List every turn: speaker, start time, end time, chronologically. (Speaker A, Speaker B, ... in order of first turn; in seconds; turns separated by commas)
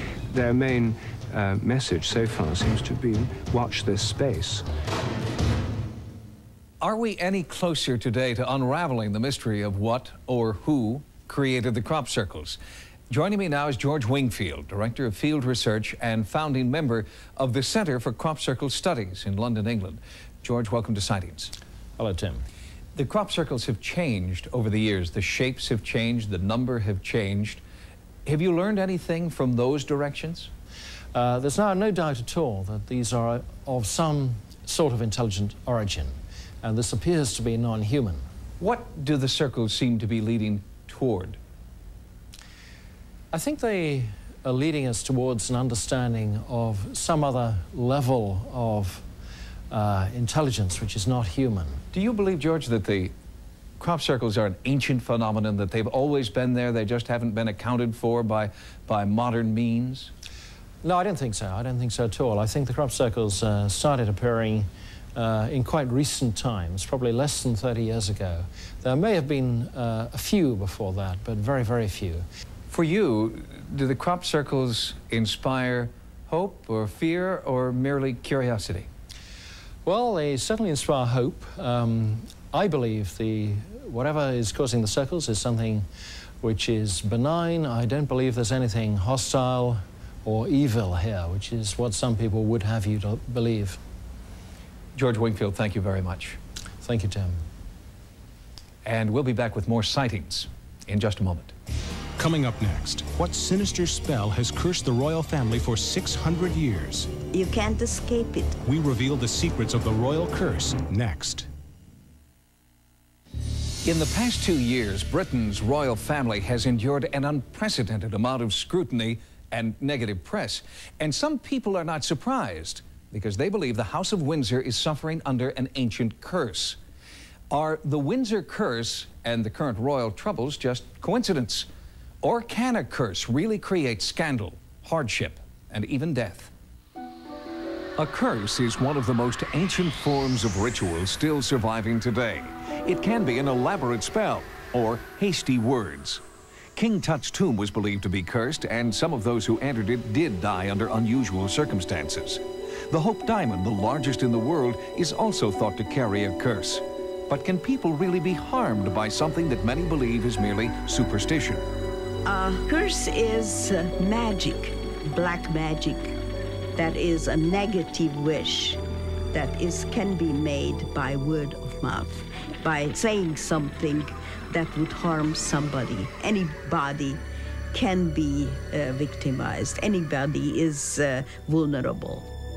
Speaker A: 0.3-4.6, Speaker B: 6.8-21.5, Speaker C: 22.0-22.4, Speaker B: 22.9-27.6, Speaker B: 28.3-30.5, Speaker C: 31.1-38.2, Speaker B: 38.6-41.4, Speaker C: 43.3-49.0, Speaker C: 49.7-51.8, Speaker B: 51.9-53.1, Speaker B: 53.8-60.1, Speaker C: 60.8-72.3, Speaker B: 72.7-78.9, Speaker C: 79.8-85.9, Speaker C: 86.4-93.8, Speaker B: 95.0-96.4, Speaker C: 96.8-97.4, Speaker B: 98.8-101.5, Speaker D: 102.2-107.1, Speaker E: 107.3-108.6, Speaker D: 108.7-111.5, Speaker B: 113.8-126.8, Speaker B: 127.5-131.7, Speaker B: 132.2-136.5, Speaker B: 138.0-146.2, Speaker B: 146.8-161.6, Speaker E: 162.3-166.2, Speaker E: 166.8-168.8, Speaker E: 169.3-182.3